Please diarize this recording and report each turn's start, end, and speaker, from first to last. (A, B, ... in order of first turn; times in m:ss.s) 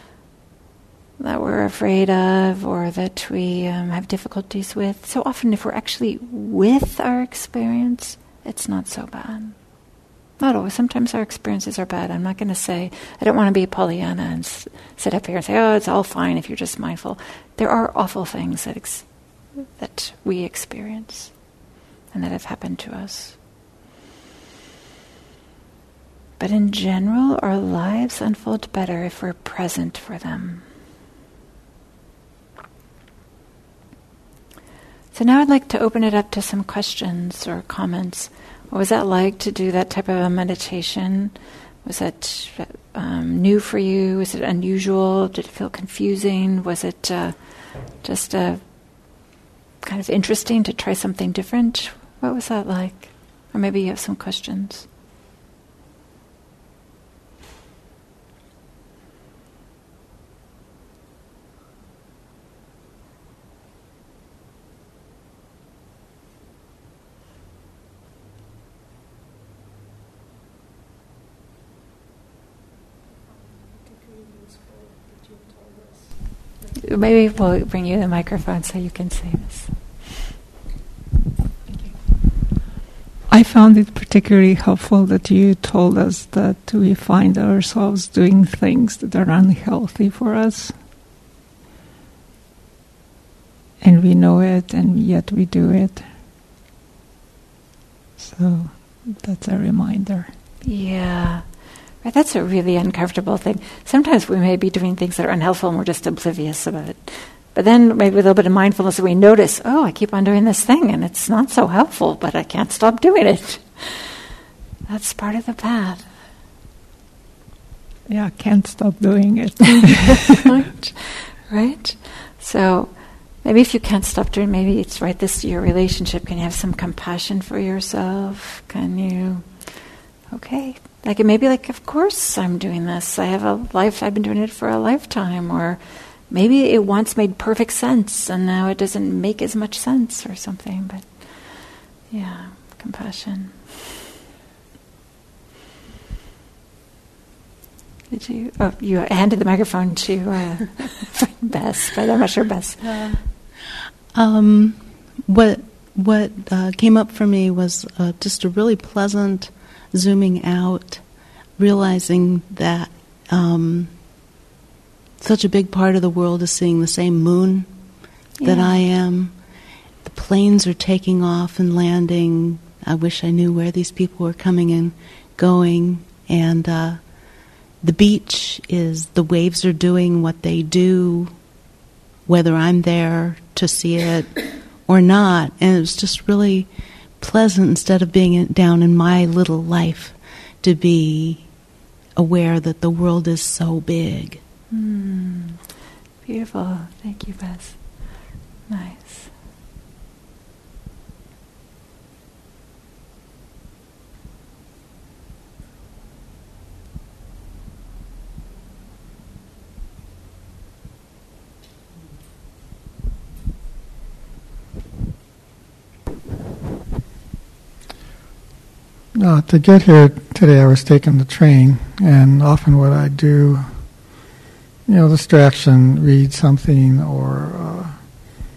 0:01.2-0:09.6 A
0:10.4-0:19.1 A
0:19.7-0:21.3 A
0:22.1-0:23.4 A
0:26.4-0:30.6 A
0:35.1-0:48.7 A
0:49.8-0:54.9 A
1:16.8-1:19.8 A
1:23.3-1:30.8 B
1:33.8-1:36.1 B
1:38.2-1:40.3 B
1:40.6-1:41.5 A
1:42.0-1:54.3 A
1:54.9-1:56.1 A
1:58.1-2:00.4 B
2:00.3-2:23.8 A
2:28.1-2:33.1 A
2:32.8-2:33.2 C
2:34.1-2:41.0 C
2:41.6-2:43.9 C
2:45.2-2:47.7 C
2:48.4-2:48.8 A
2:48.4-2:49.4 C
2:50.0-3:01.5 C
3:02.2-3:11.5 C
3:12.2-3:14.4 C
3:14.7-3:15.6 A
3:16.2-3:19.3 A
3:39.1-3:44.2 D
3:44.8-3:48.3 D